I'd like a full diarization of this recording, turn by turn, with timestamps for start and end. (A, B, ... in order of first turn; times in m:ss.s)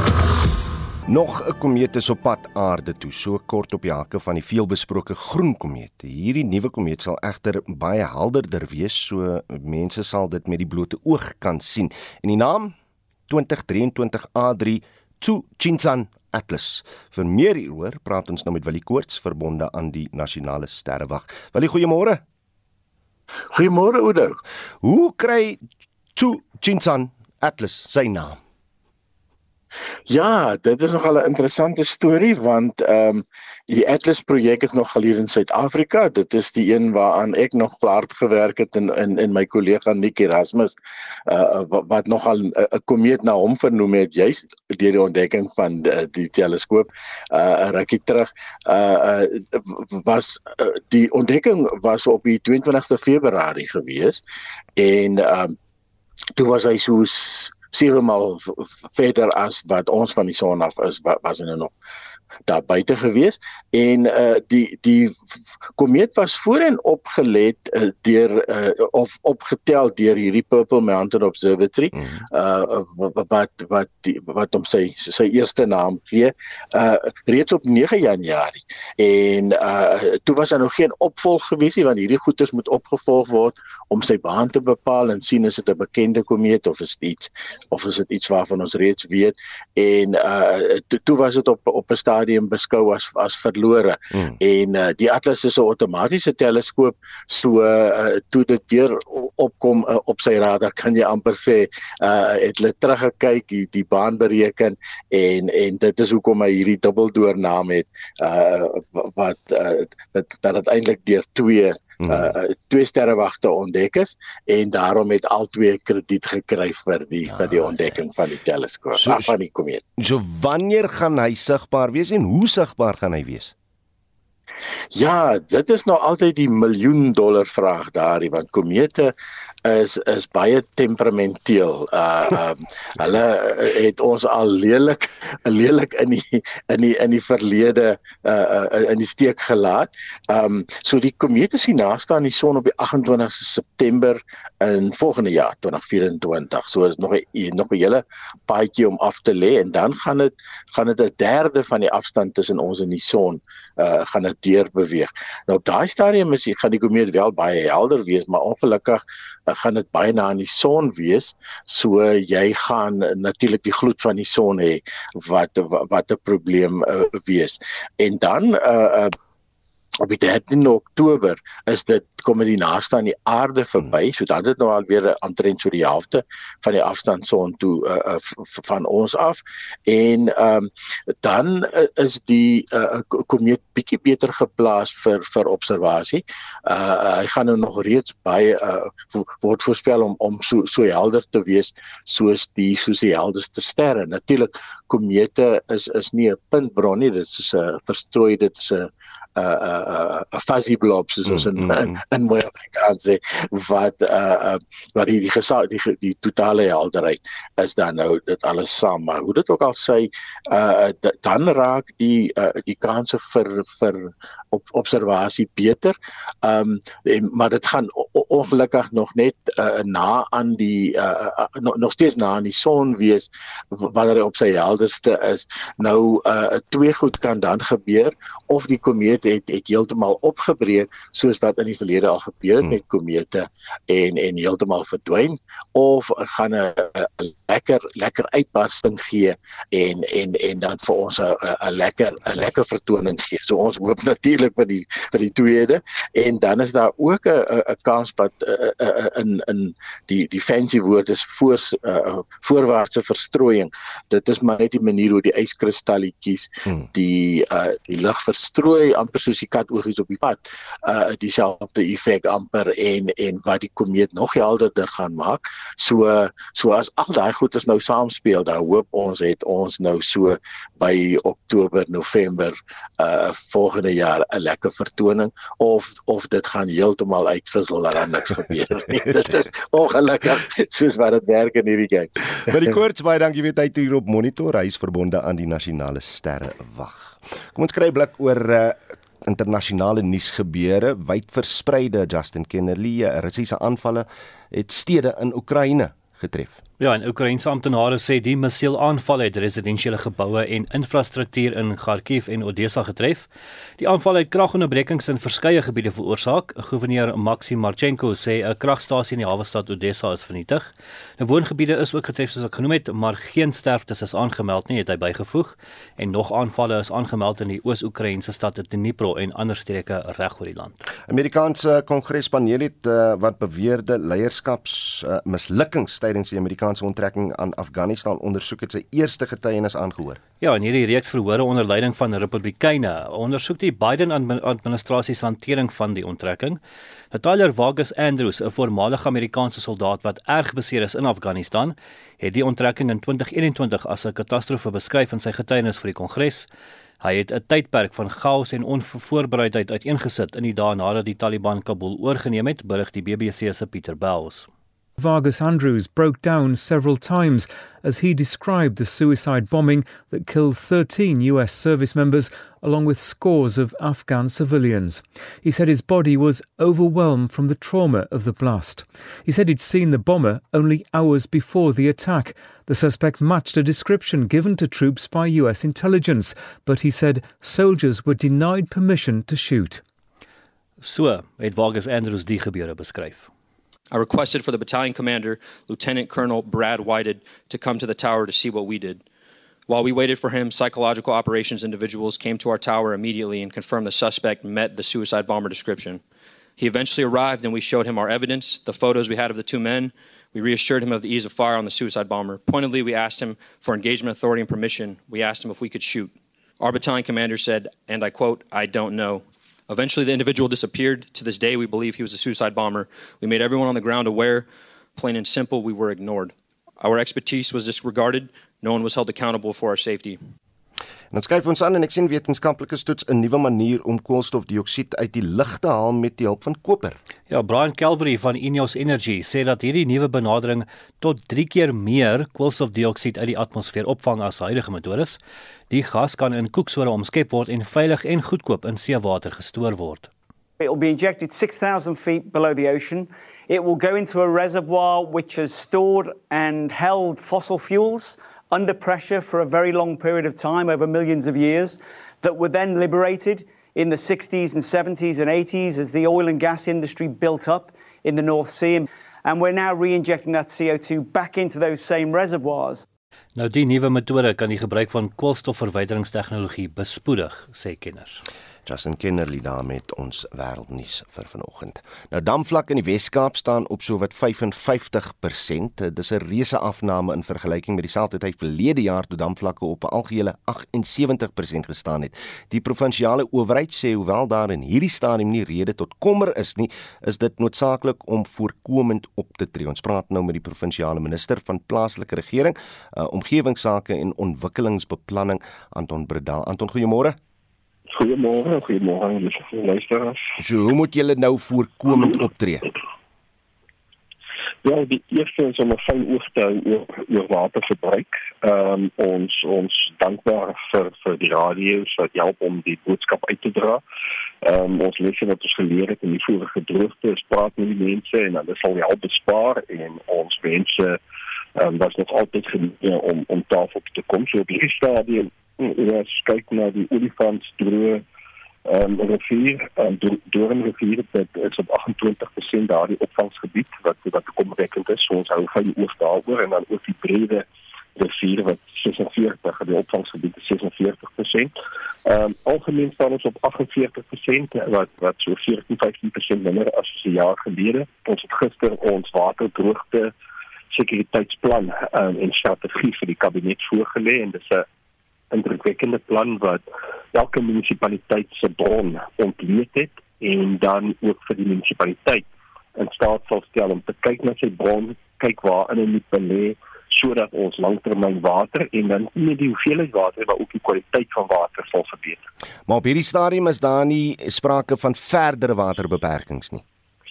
0:01.1-0:12.7 A
0:13.3-0:22.2 A
0:23.5-0:24.3 B
0:24.8-0:25.6 A
0:26.1-0:28.4 A
0:30.1-0:40.8 B
0:41.3-0:54.2 B
0:54.8-0:55.5 B
0:56.4-1:01.7 B
1:02.5-1:05.1 B
1:05.8-1:59.8 B
1:11.9-1:12.2 A
1:52.0-1:52.3 A
1:57.3-1:58.0 A
1:59.0-1:59.3 A
2:00.0-2:03.5 A
2:04.9-2:09.1 B
2:09.6-2:49.1 B
2:50.0-3:00.7 B
3:01.2-4:42.4 B
3:21.2-3:22.0 A
4:42.5-4:56.6 A
4:56.8-5:20.8 C
5:21.1-5:30.2 A
5:30.4-5:36.6 C
5:37.1-5:46.5 C
5:47.0-5:54.5 C
5:55.0-6:19.8 D
6:20.8-6:23.3 C
6:23.9-6:29.0 E
6:29.7-6:36.0 E
6:36.6-7:00.2 E
7:01.1-7:07.0 A
7:07.3-7:15.2 C
7:15.7-7:20.1 C
7:20.6-7:42.7 F
7:43.4-7:48.2 C
7:48.6-8:17.2 A
8:17.9-8:20.2 G
8:20.4-8:22.7 A
8:24.6-8:33.8 G
8:34.4-8:41.0 G
8:41.6-8:48.0 G
8:48.6-8:57.4 G
8:58.0-9:01.5 G
9:02.0-9:10.1 G
9:10.7-9:14.6 G
9:15.3-9:16.6 G
9:17.1-9:32.2 G
9:32.7-9:36.6 A